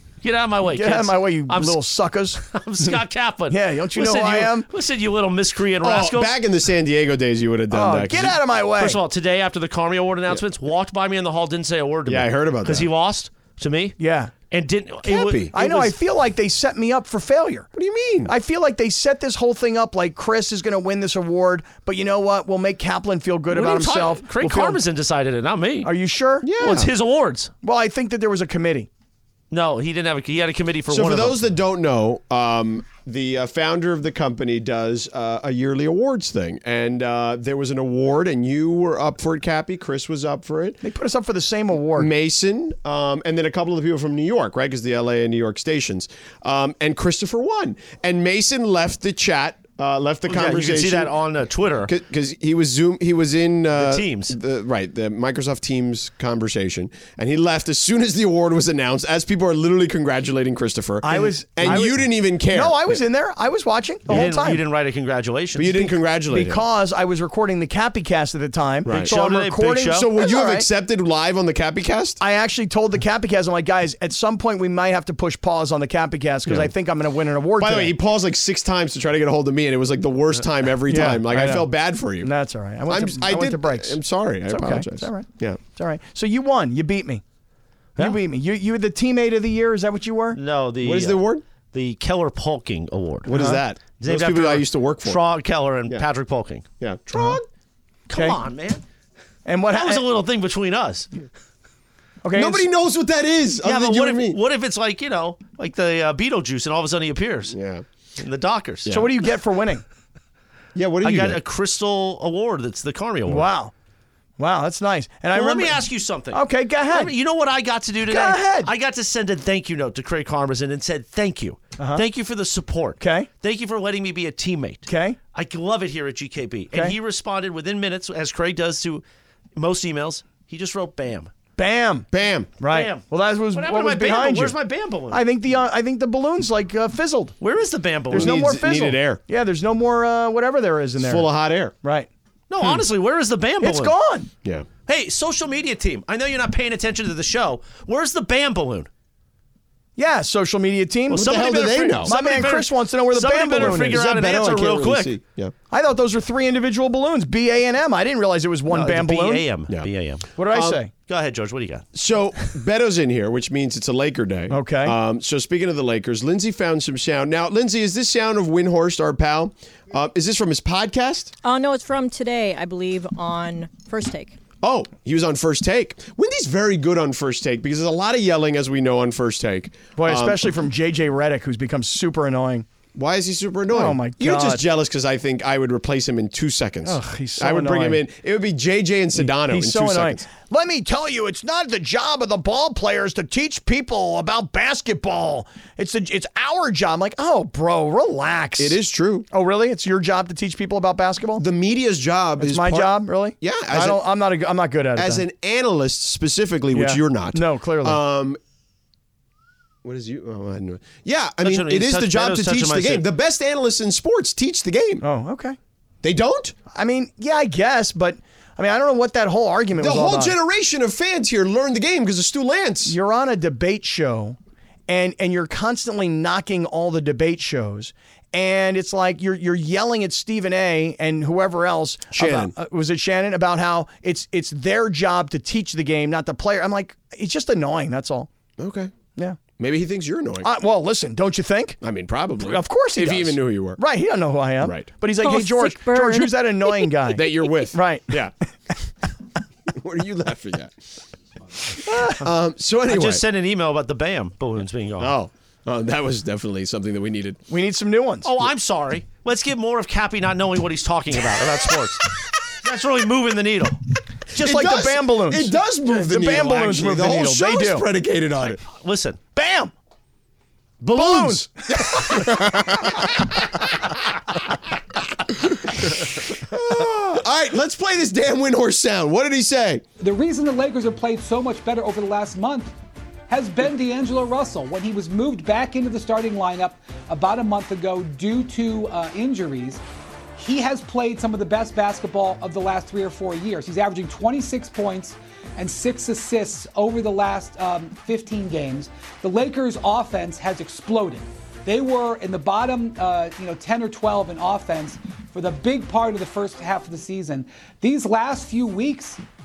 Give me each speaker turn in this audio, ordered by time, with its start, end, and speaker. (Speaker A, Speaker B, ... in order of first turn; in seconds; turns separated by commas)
Speaker A: 0.2-1.8, Speaker B: 0.7-3.0, Speaker A: 2.4-6.3, Speaker B: 3.5-4.7, Speaker C: 5.8-8.4, Speaker B: 7.7-9.0, Speaker A: 8.8-13.9, Speaker C: 12.1-12.9, Speaker B: 14.0-14.3, Speaker A: 14.5-15.9, Speaker C: 15.0-15.5, Speaker B: 15.5-17.7, Speaker C: 17.7-18.3, Speaker B: 18.2-24.8, Speaker A: 23.5-25.9, Speaker B: 25.8-26.5, Speaker C: 26.4-26.9, Speaker A: 26.6-27.5, Speaker B: 27.6-28.9, Speaker A: 29.5-31.4, Speaker C: 30.9-40.8, Speaker B: 40.8-42.1, Speaker C: 42.0-51.1, Speaker A: 50.3-51.9, Speaker C: 51.8-63.0, Speaker A: 53.7-54.4, Speaker B: 61.0-64.6, Speaker A: 64.1-65.8, Speaker C: 65.5-66.6, Speaker B: 65.7-70.7, Speaker C: 68.8-69.1, Speaker A: 68.9-70.1, Speaker C: 69.9-72.2, Speaker B: 72.2-78.0, Speaker C: 77.6-82.3, Speaker B: 80.9-87.2, Speaker C: 82.9-85.6, Speaker B: 88.0-90.4, Speaker A: 90.3-93.3, Speaker C: 90.8-91.4, Speaker C: 93.2-95.2, Speaker B: 93.3-93.6, Speaker A: 94.0-96.6, Speaker C: 96.8-97.5, Speaker B: 97.1-97.4, Speaker A: 98.1-98.8, Speaker B: 99.5-100.0, Speaker A: 99.7-101.1, Speaker B: 102.2-102.6, Speaker C: 102.3-104.4, Speaker A: 103.6-107.5, Speaker C: 107.5-107.8, Speaker A: 108.2-108.9, Speaker B: 108.9-109.8, Speaker C: 110.7-111.4, Speaker A: 111.0-113.5, Speaker B: 113.3-113.7, Speaker B: 114.4-117.1, Speaker A: 115.3-129.0, Speaker B: 118.0-118.7, Speaker B: 121.8-122.0, Speaker B: 123.0-123.3, Speaker B: 124.9-125.2, Speaker A: 129.6-131.3, Speaker B: 131.6-132.1, Speaker C: 132.1-132.5, Speaker B: 132.6-134.6, Speaker A: 132.6-133.0, Speaker A: 133.5-135.2, Speaker B: 135.1-137.3, Speaker A: 137.4-138.4, Speaker B: 138.1-142.1, Speaker C: 138.1-139.2, Speaker C: 141.0-141.7, Speaker A: 142.5-143.9, Speaker B: 143.6-144.3, Speaker A: 144.8-148.9, Speaker B: 150.0-151.5, Speaker A: 151.1-155.1, Speaker C: 151.2-152.1, Speaker B: 152.0-154.0, Speaker C: 153.6-155.5, Speaker B: 155.7-159.5, Speaker A: 158.7-160.3, Speaker B: 160.4-160.9, Speaker C: 160.5-160.8, Speaker A: 161.1-161.8, Speaker C: 161.9-171.3, Speaker B: 164.5-164.9, Speaker D: 171.4-174.3, Speaker C: 174.6-180.5, Speaker B: 179.9-182.7, Speaker C: 182.9-190.2, Speaker B: 183.7-184.6, Speaker B: 186.8-188.0, Speaker B: 189.2-198.8, Speaker C: 198.6-199.3, Speaker B: 199.3-201.4, Speaker C: 201.4-204.0, Speaker B: 202.4-205.2, Speaker C: 204.9-208.4, Speaker B: 206.7-208.0, Speaker C: 209.8-215.0, Speaker A: 211.4-213.0, Speaker B: 215.0-215.6, Speaker C: 216.0-216.5, Speaker B: 216.7-220.3, Speaker C: 219.8-222.9, Speaker B: 222.8-224.4, Speaker B: 224.9-238.3, Speaker C: 232.1-232.5, Speaker C: 238.6-238.9, Speaker C: 239.6-240.5, Speaker B: 240.4-241.8, Speaker C: 241.8-243.8, Speaker B: 242.4-248.2, Speaker C: 244.6-244.9, Speaker D: 245.2-246.9, Speaker C: 247.1-248.3, Speaker C: 249.7-250.7, Speaker C: 251.7-253.2, Speaker B: 251.9-252.2, Speaker A: 252.9-255.1, Speaker C: 255.0-257.4, Speaker B: 257.5-258.3, Speaker A: 258.2-263.8, Speaker C: 264.3-268.6, Speaker B: 264.3-267.9, Speaker A: 268.6-269.2, Speaker B: 269.3-269.7, Speaker B: 270.9-272.6, Speaker C: 270.9-273.1, Speaker C: 275.9-279.8, Speaker E: 280.0-282.7, Speaker E: 283.3-289.8, Speaker E: 290.4-309.2